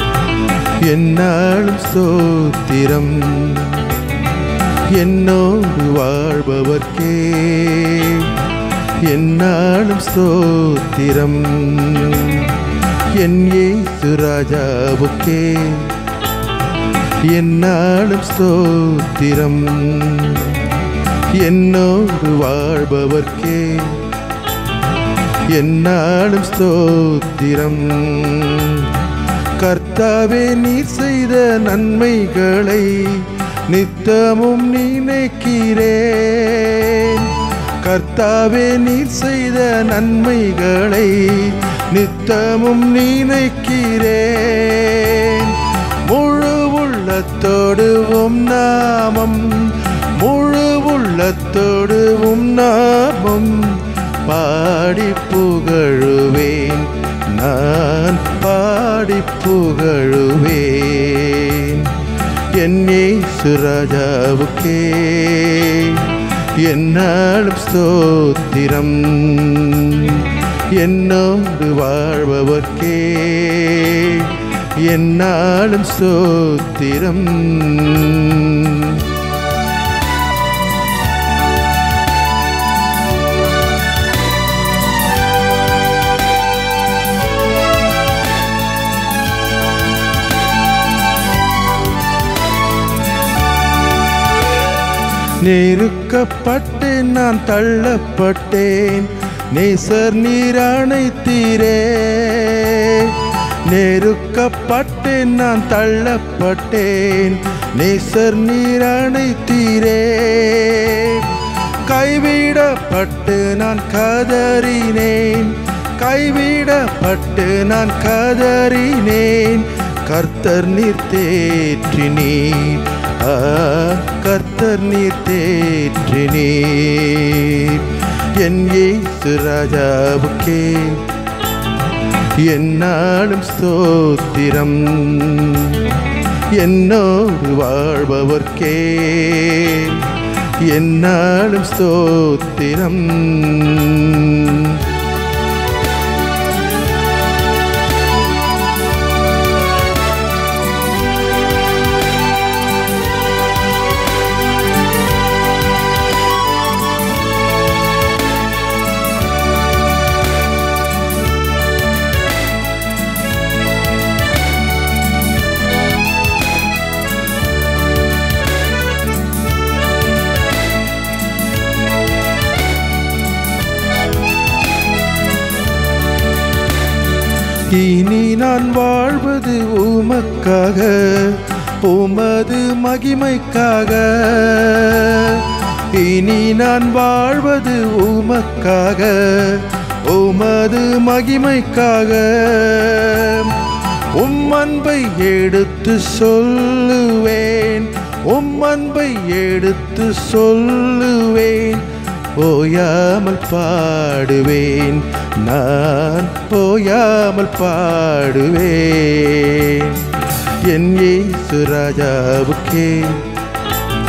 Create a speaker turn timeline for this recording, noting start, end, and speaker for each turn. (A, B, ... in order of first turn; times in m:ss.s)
0:00.8-0:04.1 A
0:04.9-0:16.0 A
0:17.2-0:20.7 A
0:21.3-0:24.1 A
0:25.4-1:19.1 A
1:35.4-2:11.1 A
2:12.3-2:24.9 A
2:57.7-3:33.4 A